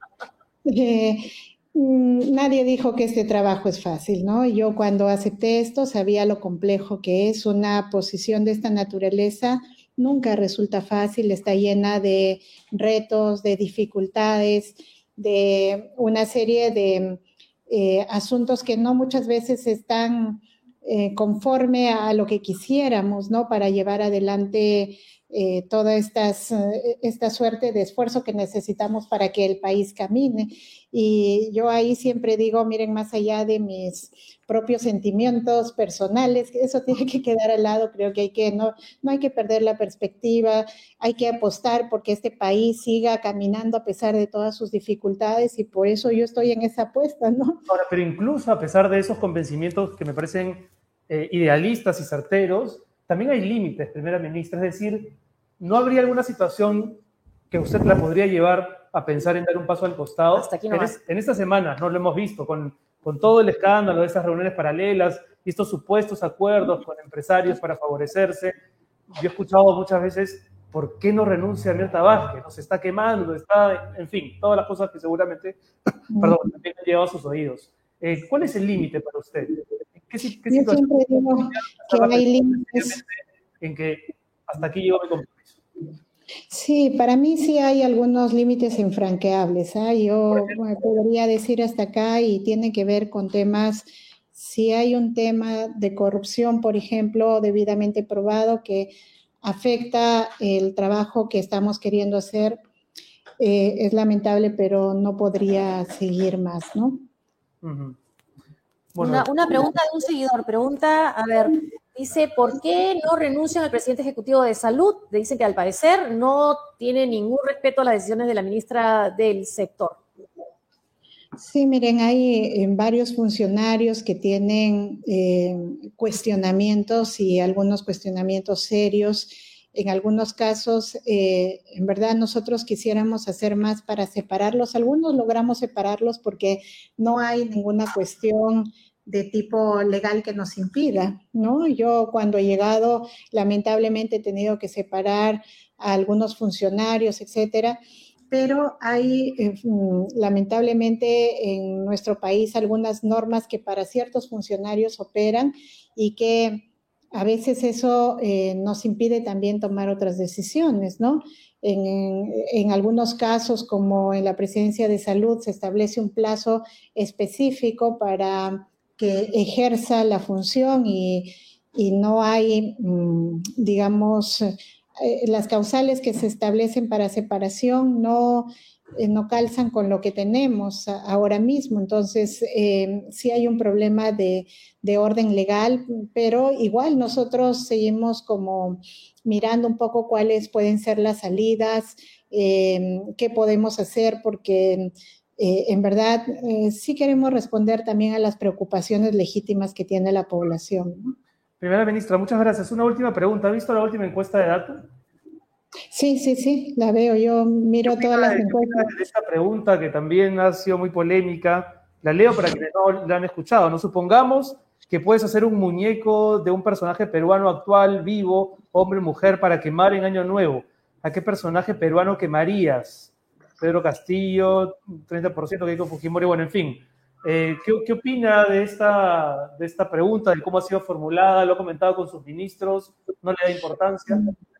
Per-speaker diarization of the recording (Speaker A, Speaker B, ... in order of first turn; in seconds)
Speaker A: 0.6-47.6, 76.1-76.4, 80.5-83.0, 86.5-102.6, 103.4-107.0, 121.4-147.8, 148.3-201.1, 205.9-208.9
Speaker B: 47.7-68.5, 69.1-75.6, 76.2-85.6, 107.6-108.0, 108.9-109.3, 201.6-204.9, 207.9-234.2
Speaker C: 60.3-61.0, 109.0-120.0